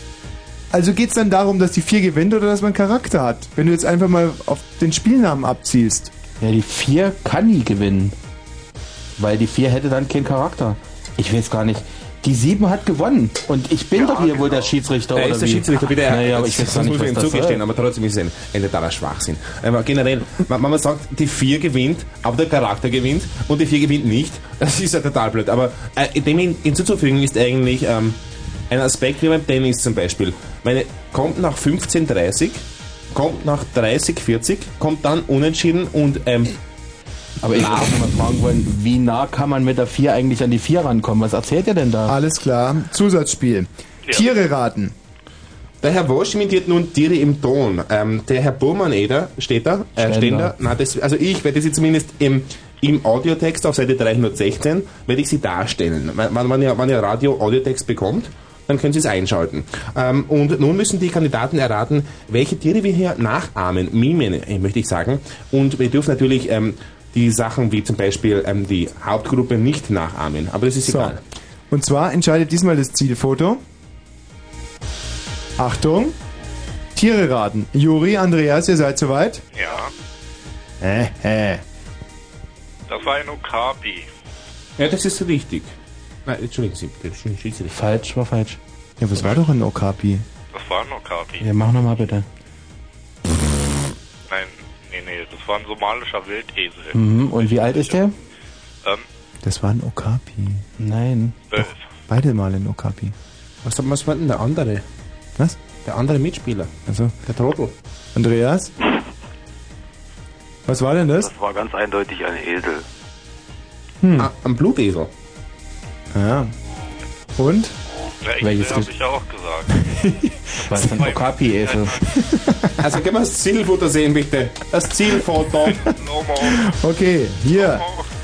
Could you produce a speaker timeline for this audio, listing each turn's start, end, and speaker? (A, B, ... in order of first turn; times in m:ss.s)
0:00.7-0:06.1 A
0:06.4-0:08.2 B
0:09.2-0:17.6 B
0:14.0-0:14.7 C
0:15.1-0:28.2 D
0:28.7-0:36.6 D
0:37.4-0:42.2 B
0:37.6-0:37.9 D
0:42.1-0:44.9 A
0:45.8-1:11.2 D
0:50.0-0:50.6 B
1:10.9-1:11.2 A
1:11.7-1:13.6 A
1:15.6-1:16.2 A
1:17.0-1:19.4 A
1:19.5-1:19.9 E
1:20.8-1:21.6 A
1:22.9-1:24.1 E
1:24.8-1:25.7 D
1:26.3-1:27.7 D
1:27.7-1:28.6 B
1:29.0-1:30.3 A
1:30.5-1:31.5 E
1:31.4-1:32.3 B
1:34.3-1:38.0 E
1:36.9-1:38.2 B
1:39.4-1:40.6 A
1:40.8-1:41.4 B
1:41.5-1:41.8 E
1:42.1-1:43.2 A
1:43.6-1:44.8 D
1:45.8-1:46.7 D
1:46.9-1:47.2 A
1:47.2-1:47.7 D
1:48.2-1:48.7 A
1:50.7-1:51.3 A
1:51.2-1:52.8 C
1:54.0-1:54.3 A
1:54.2-1:55.1 D
1:56.1-1:56.5 A
1:57.4-1:57.8 A
1:58.2-1:59.8 E
1:58.4-1:58.9 B
1:59.8-2:01.0 A
2:00.7-2:02.0 B
2:00.8-2:02.0 E
2:02.1-2:02.8 A
2:02.8-2:05.9 D
2:05.8-2:06.6 E
2:06.4-2:07.9 A
2:07.6-2:08.1 E